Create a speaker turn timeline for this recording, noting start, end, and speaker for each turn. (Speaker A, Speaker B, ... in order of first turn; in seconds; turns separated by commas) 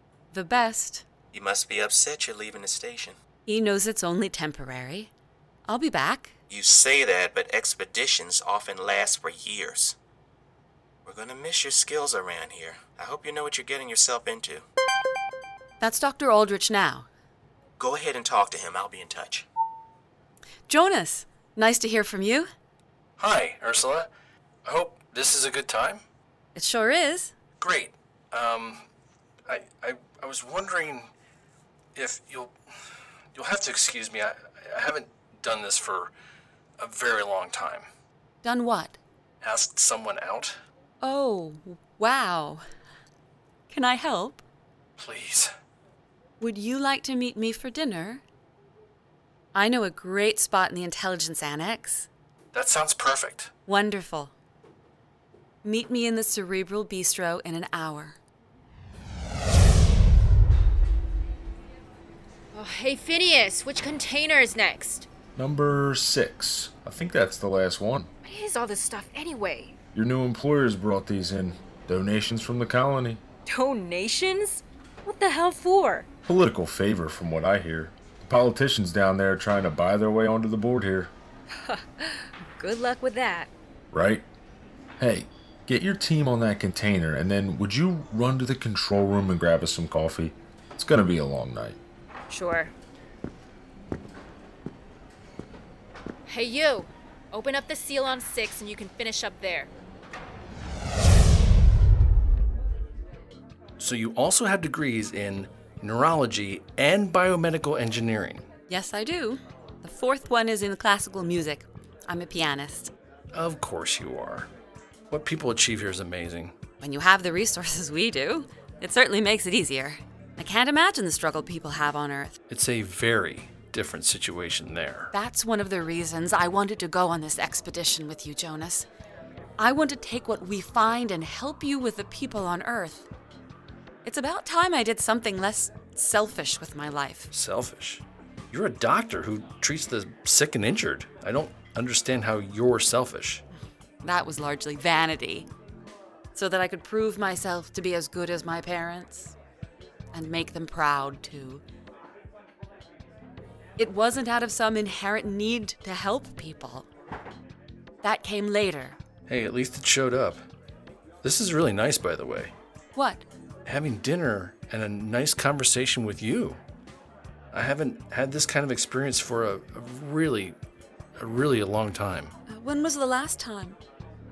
Speaker A: 0.3-1.0, Speaker B: 1.3-3.1, Speaker A: 3.5-5.1, Speaker A: 5.7-6.3, Speaker B: 6.5-9.9, Speaker B: 11.1-14.6, Speaker A: 15.8-17.1, Speaker B: 17.8-19.4, Speaker A: 20.7-22.5, Speaker C: 23.2-24.1, Speaker C: 24.6-26.0, Speaker A: 26.6-27.3, Speaker C: 27.6-28.9, Speaker C: 29.5-31.1, Speaker C: 31.9-32.5, Speaker C: 33.3-36.1, Speaker C: 36.8-37.9, Speaker A: 38.4-39.0, Speaker C: 39.4-40.6, Speaker A: 41.0-42.6, Speaker A: 43.7-44.4, Speaker C: 45.0-45.5, Speaker A: 46.4-48.2, Speaker A: 49.5-52.1, Speaker C: 52.5-53.5, Speaker A: 53.6-54.3, Speaker A: 55.6-58.2, Speaker D: 62.5-65.1, Speaker E: 65.4-68.1, Speaker D: 68.2-69.8, Speaker E: 69.9-73.2, Speaker D: 73.5-76.1, Speaker E: 76.2-81.1, Speaker D: 81.6-83.5, Speaker E: 83.9-84.2, Speaker E: 85.0-91.8, Speaker D: 92.3-92.7, Speaker D: 96.3-99.7, Speaker C: 103.8-108.5, Speaker A: 108.7-112.9, Speaker C: 113.3-114.5, Speaker C: 115.1-116.5, Speaker A: 116.8-122.4, Speaker C: 122.5-125.1, Speaker A: 125.1-128.9, Speaker A: 129.6-133.1, Speaker A: 134.0-137.3, Speaker C: 137.3-143.4, Speaker A: 144.0-145.5, Speaker A: 146.3-149.3, Speaker A: 150.1-151.6, Speaker A: 153.8-156.9, Speaker A: 158.0-159.0, Speaker C: 159.3-160.4, Speaker C: 161.2-162.5, Speaker A: 162.9-163.2, Speaker C: 163.7-166.6, Speaker C: 167.5-170.6, Speaker C: 171.2-172.3, Speaker A: 172.5-173.8